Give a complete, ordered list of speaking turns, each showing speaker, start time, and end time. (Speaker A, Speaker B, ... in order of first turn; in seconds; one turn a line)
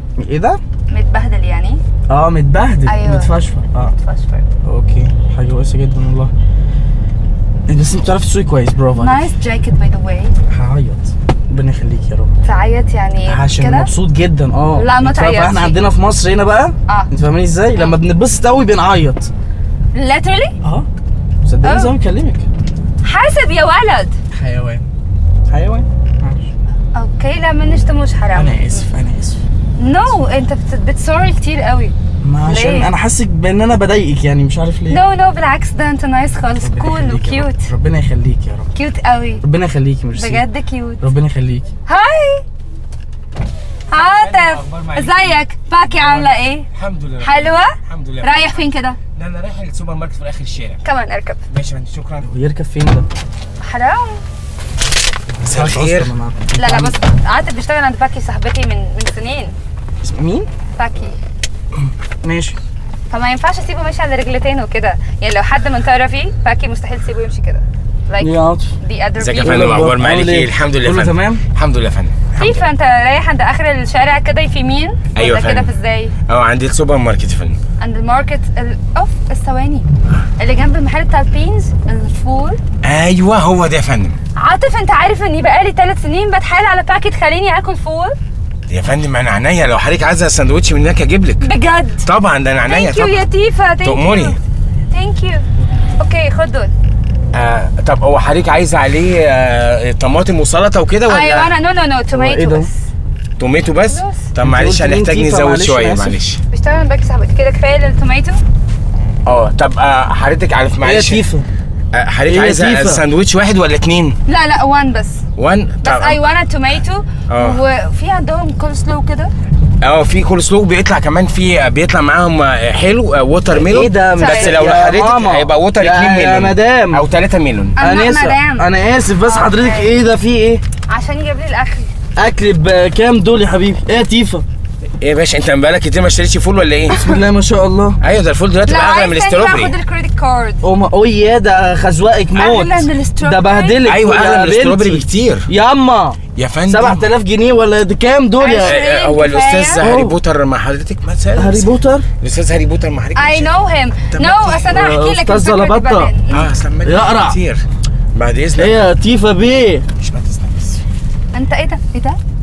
Speaker A: 0.2-0.6
Speaker B: 0.9-1.8
Speaker A: 2.1-3.9
Speaker B: 2.9-4.5
Speaker A: 4.7-6.3
Speaker A: 7.7-9.3
Speaker B: 9.0-10.3
Speaker A: 10.5-12.3
Speaker B: 12.4-13.9
Speaker A: 13.2-19.3
Speaker B: 14.8-15.8
Speaker B: 19.9-20.6
Speaker A: 20.6-20.9
Speaker A: 21.4-22.5
Speaker B: 21.6-21.9
Speaker B: 23.0-24.2
Speaker A: 24.3-24.9
Speaker A: 25.5-26.5
Speaker B: 27.0-28.8
Speaker A: 28.3-29.4
Speaker B: 29.8-32.9
Speaker A: 32.2-35.0
Speaker B: 34.9-37.7
Speaker A: 36.6-38.7
Speaker B: 38.8-39.4
Speaker A: 39.4-40.5
Speaker B: 40.1-41.0
Speaker A: 41.0-41.7
Speaker B: 41.9-42.4
Speaker B: 43.9-46.7
Speaker C: 43.9-45.4
Speaker C: 45.9-48.6
Speaker B: 47.2-49.0
Speaker C: 49.2-50.8
Speaker B: 50.9-51.4
Speaker C: 51.5-52.3
Speaker A: 52.2-53.1
Speaker B: 53.6-54.2
Speaker A: 55.3-57.0
Speaker C: 55.4-56.1
Speaker B: 56.6-59.5
Speaker A: 60.0-60.5
Speaker B: 60.8-61.2
Speaker A: 61.8-62.6
Speaker B: 63.1-69.9
Speaker A: 68.2-68.7
Speaker C: 69.2-72.7
Speaker A: 69.4-71.4
Speaker B: 72.4-76.1
Speaker C: 75.2-75.7
Speaker C: 76.3-77.6
Speaker B: 77.8-79.9
Speaker B: 80.4-82.6
Speaker C: 82.8-84.2
Speaker B: 84.4-88.2
Speaker C: 88.7-91.5
Speaker B: 91.4-92.1
Speaker C: 92.0-93.2
Speaker B: 92.7-94.4
Speaker C: 93.8-94.4
Speaker B: 94.9-95.5
Speaker B: 96.0-96.7
Speaker C: 97.3-101.6
Speaker B: 101.1-102.8
Speaker A: 102.1-102.7
Speaker C: 103.4-106.4
Speaker B: 103.8-104.2
Speaker A: 104.4-106.2
Speaker B: 106.5-108.4
Speaker C: 109.3-111.2
Speaker A: 110.8-111.5
Speaker C: 111.9-114.2
Speaker A: 112.3-113.0
Speaker B: 114.3-115.2
Speaker C: 115.4-116.2
Speaker B: 115.8-119.3
Speaker C: 117.3-117.6
Speaker C: 119.8-127.8
Speaker A: 123.5-127.0
Speaker B: 124.2-124.6
Speaker B: 127.8-128.7
Speaker A: 127.8-130.6
Speaker B: 129.2-130.0
Speaker B: 130.9-131.9
Speaker A: 132.2-134.4
Speaker C: 135.0-137.1
Speaker A: 136.9-138.0
Speaker C: 138.0-139.8
Speaker B: 138.7-140.6
Speaker A: 140.6-148.8
Speaker B: 142.3-143.9
Speaker C: 143.8-145.5
Speaker C: 146.3-147.0
Speaker B: 148.4-149.8
Speaker C: 148.6-151.7
Speaker A: 149.8-150.2
Speaker A: 151.4-152.1
Speaker C: 152.2-153.5
Speaker B: 153.2-156.5
Speaker C: 154.0-154.7
Speaker A: 154.7-156.1
Speaker C: 156.3-157.6
Speaker A: 156.8-157.4
Speaker C: 158.2-158.8
Speaker A: 158.6-159.9
Speaker C: 160.0-160.8
Speaker B: 161.3-162.2